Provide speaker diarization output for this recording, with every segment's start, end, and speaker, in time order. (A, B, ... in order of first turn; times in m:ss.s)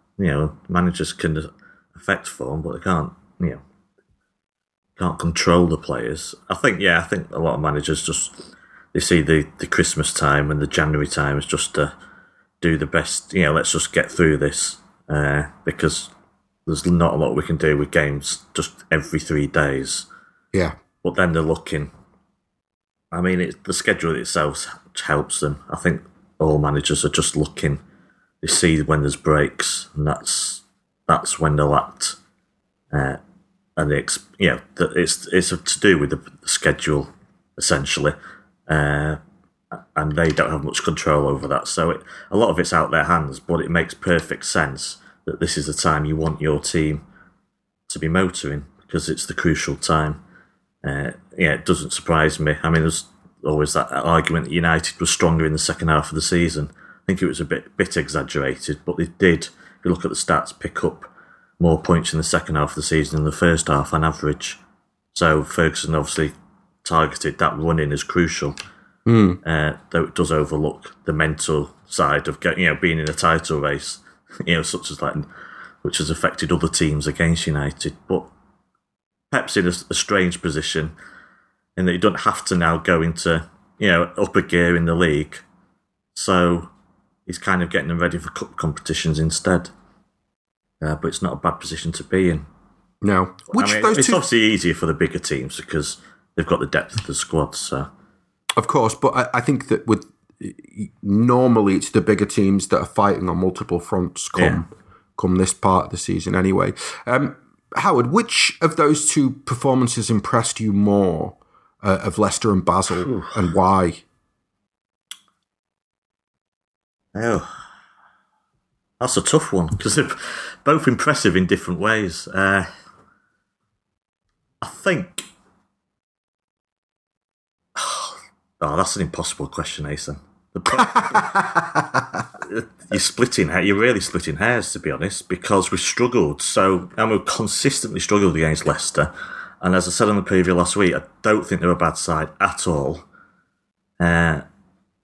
0:00.2-0:03.6 A
0:05.0-0:08.4 A
0:08.9-0:11.9 A
0:12.6-0:16.1 A
0:16.7-0:20.1 A
0:21.0-0:21.9 A
0:23.1-0:27.8 A
0:28.4-0:32.2 A
0:32.9-0:33.2 A
0:33.8-0:38.2 A
0:38.7-0:39.2 A
0:39.8-0:47.0 A
0:47.9-0:50.2 A
0:50.8-1:01.1 A
1:01.6-1:04.6 A
1:05.1-1:06.3 A
1:06.8-1:08.6 A
1:09.1-1:09.4 B
1:09.4-1:15.3 A
1:15.8-1:18.3 A
1:19.3-1:20.9 A
1:21.8-1:25.4 A
1:26.2-1:26.7 A
1:27.3-1:29.7 A
1:30.8-1:32.5 A
1:33.0-1:34.2 B
1:33.6-1:37.9 A
1:38.6-1:54.0 B
1:44.4-1:44.6 A
1:53.1-1:53.3 A
1:57.2-1:57.5 A
1:59.0-2:02.7 A
2:04.6-2:05.2 A
2:07.8-2:11.5 A
2:10.9-2:12.0 B
2:12.4-2:23.0 A
2:24.0-2:24.4 A